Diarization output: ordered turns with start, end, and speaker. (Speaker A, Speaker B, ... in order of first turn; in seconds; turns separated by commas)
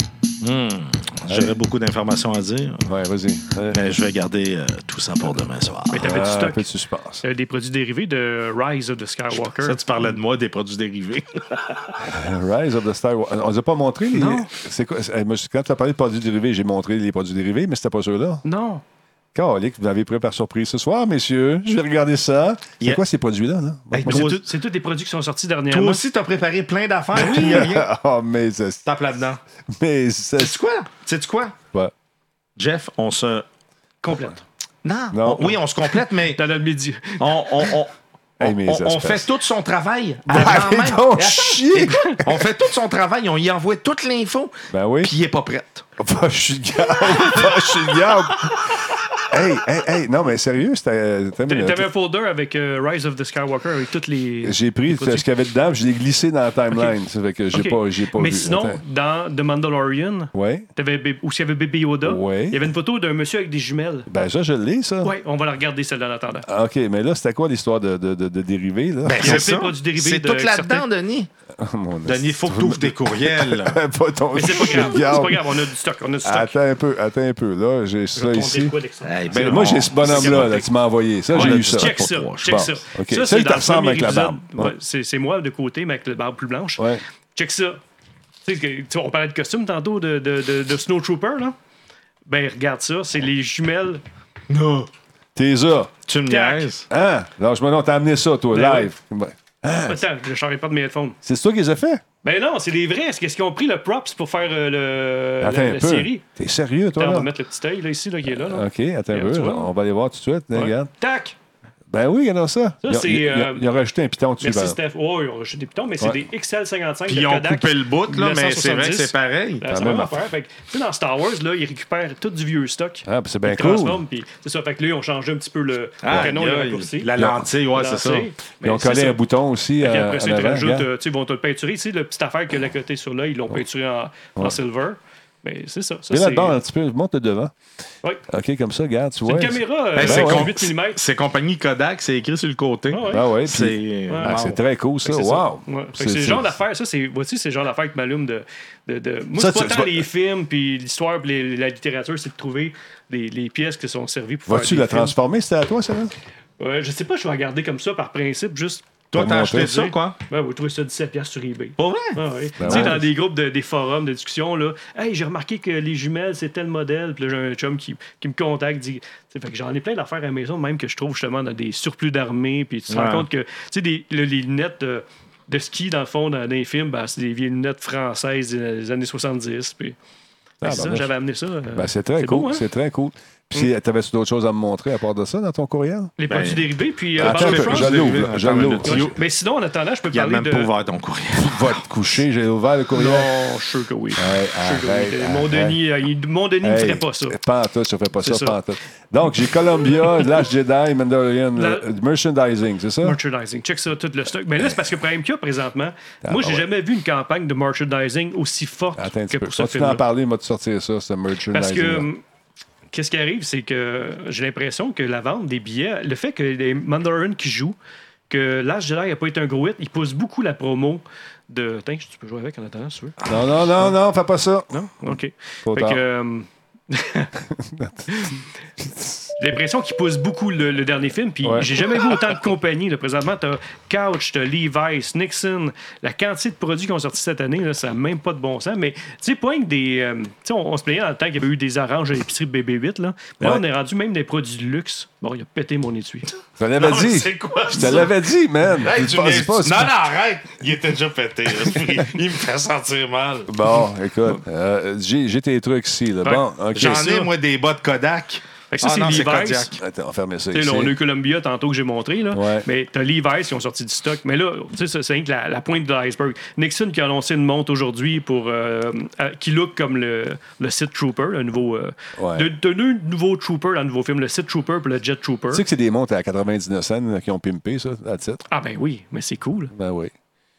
Speaker A: 0.4-2.9, Speaker B: 1.3-1.6, Speaker B: 2.9-3.9, Speaker A: 3.7-6.1, Speaker C: 5.9-6.6, Speaker B: 6.0-7.2, Speaker C: 7.2-9.8, Speaker A: 9.3-12.0, Speaker B: 12.0-18.4, Speaker C: 14.1-14.5, Speaker C: 18.4-18.8, Speaker B: 19.3-24.4, Speaker A: 23.9-24.4, Speaker C: 24.1-26.0, Speaker A: 25.7-27.9, Speaker C: 27.2-27.7, Speaker B: 27.2-28.8, Speaker A: 28.9-29.4, Speaker B: 29.7-30.6, Speaker A: 30.4-31.6, Speaker A: 32.6-33.5, Speaker C: 34.0-34.4, Speaker A: 34.8-36.4, Speaker B: 35.1-35.6, Speaker C: 36.3-37.4, Speaker A: 37.2-45.9, Speaker B: 38.4-39.3, Speaker B: 40.3-42.5, Speaker C: 41.9-42.2, Speaker B: 44.7-45.1, Speaker B: 46.0-48.8, Speaker B: 49.3-51.9, Speaker C: 51.5-55.3, Speaker B: 54.4-58.8, Speaker C: 57.5-64.1, Speaker B: 60.3-60.7, Speaker B: 62.0-62.6, Speaker B: 64.1-65.1, Speaker C: 65.0-66.5, Speaker B: 66.5-69.5, Speaker A: 69.0-71.3, Speaker C: 69.2-70.8, Speaker B: 71.6-75.6, Speaker A: 72.1-73.8, Speaker C: 74.3-76.5, Speaker B: 76.2-78.8, Speaker C: 78.2-80.7, Speaker A: 79.0-80.6, Speaker B: 79.3-84.8, Speaker A: 81.3-82.7, Speaker C: 81.3-87.8, Speaker B: 86.8-87.0, Speaker C: 88.4-91.6, Speaker C: 92.3-94.0, Speaker A: 94.5-94.9, Speaker B: 95.4-95.9, Speaker A: 96.1-96.9, Speaker C: 96.3-96.7, Speaker B: 96.9-100.0, Speaker C: 98.5-98.9, Speaker C: 99.9-101.2, Speaker B: 101.2-102.0, Speaker C: 102.2-106.2, Speaker B: 105.4-107.3, Speaker C: 107.0-109.7, Speaker B: 108.3-110.9, Speaker C: 110.5-111.3, Speaker B: 111.9-114.8, Speaker C: 112.8-113.7, Speaker C: 114.4-127.1, Speaker A: 117.1-119.7, Speaker B: 119.7-120.2, Speaker B: 123.0-124.0, Speaker A: 126.0-128.3, Speaker B: 127.2-127.5, Speaker C: 127.7-129.2, Speaker B: 128.6-130.9, Speaker C: 129.8-136.6, Speaker B: 136.1-137.5, Speaker B: 138.3-140.5, Speaker C: 139.2-141.0, Speaker A: 140.0-144.6, Speaker C: 142.9-143.3, Speaker B: 143.1-146.6, Speaker C: 144.1-144.4, Speaker C: 145.0-155.2, Speaker B: 149.3-150.1, Speaker B: 154.5-156.1, Speaker C: 156.6-158.9, Speaker A: 159.1-160.2, Speaker B: 159.2-159.8, Speaker C: 159.5-180.0, Speaker A: 161.8-163.0, Speaker B: 162.6-163.1, Speaker A: 172.9-173.3, Speaker B: 180.6-181.1, Speaker C: 180.6-182.7, Speaker B: 181.7-186.1, Speaker C: 186.2-188.2, Speaker A: 186.3-189.2, Speaker B: 187.2-189.1, Speaker C: 188.8-190.7, Speaker A: 190.1-191.9, Speaker B: 191.4-193.3, Speaker C: 192.9-197.4, Speaker B: 194.2-195.8, Speaker B: 196.6-203.2, Speaker C: 198.2-198.6, Speaker C: 201.6-201.9, Speaker C: 203.0-210.0, Speaker B: 206.2-206.7, Speaker B: 209.0-212.1, Speaker C: 211.5-212.2, Speaker C: 212.9-217.8, Speaker C: 218.3-223.3, Speaker B: 223.2-226.0, Speaker C: 224.7-227.3, Speaker B: 227.5-229.2, Speaker C: 228.1-228.4, Speaker C: 229.4-246.3, Speaker B: 231.4-231.8, Speaker B: 246.6-249.9, Speaker A: 246.8-248.1, Speaker A: 248.8-253.5, Speaker B: 253.5-257.1, Speaker C: 256.2-257.3, Speaker A: 256.8-259.8, Speaker C: 258.7-259.7, Speaker B: 259.8-260.9, Speaker C: 260.5-275.6, Speaker B: 262.3-262.7, Speaker B: 272.2-272.5, Speaker B: 275.5-278.4, Speaker C: 278.5-279.7, Speaker B: 279.7-280.1